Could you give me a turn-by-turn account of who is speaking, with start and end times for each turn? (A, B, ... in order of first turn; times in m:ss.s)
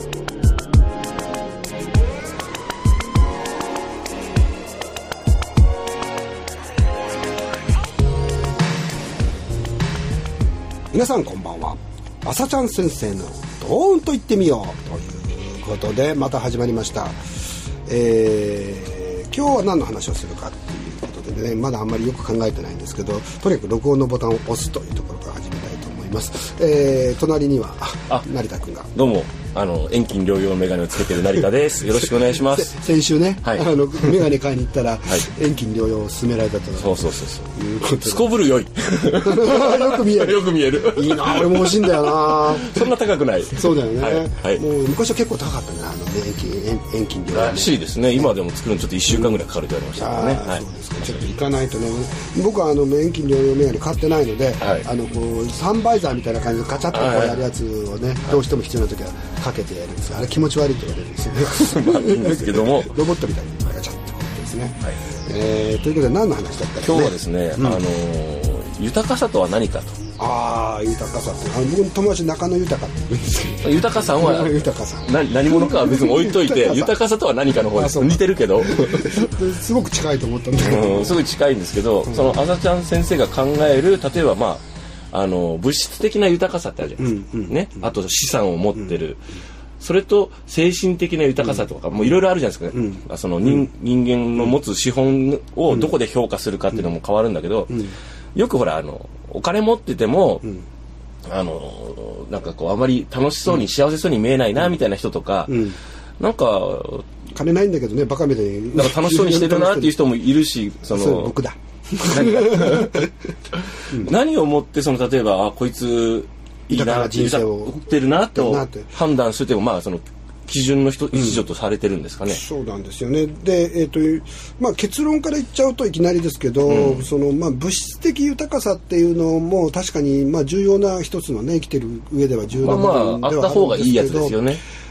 0:10.9-0:17.2 A
0:17.8-0:28.9 A
0:28.9-0:32.8 B
0:31.9-0:38.3 A
0:33.4-0:34.2 B
0:36.8-0:37.4 B
0:38.0-0:44.6 B
0:39.1-0:42.9 A
0:43.5-0:48.3 A
0:47.3-0:51.2 B
0:50.0-1:07.8 A
0:54.6-0:54.8 B
0:56.9-0:57.4 B
1:01.5-1:02.9 B
1:06.8-1:09.9 B
1:10.2-1:17.0 A
1:13.6-1:19.2 B
1:17.7-1:21.2 A
1:20.6-1:29.2 B
1:22.0-1:22.4 A
1:27.0-1:27.9 A
1:28.8-1:29.0 A
1:29.8-1:37.8 B
1:31.4-1:33.7 A
1:37.7-1:37.9 A
1:38.3-1:40.4 B
1:41.3-1:45.6 B
1:45.5-1:45.8 A
1:46.2-1:47.0 B
1:47.3-1:50.0 A
1:48.7-1:51.4 B
1:50.8-1:53.1 A
1:52.1-1:53.1 B
1:53.8-2:02.4 B
1:56.7-1:57.7 A
1:58.3-1:58.9 A
2:01.1-2:01.4 A
2:02.3-2:14.4 A
2:06.6-2:07.1 B
2:12.5-2:14.6 B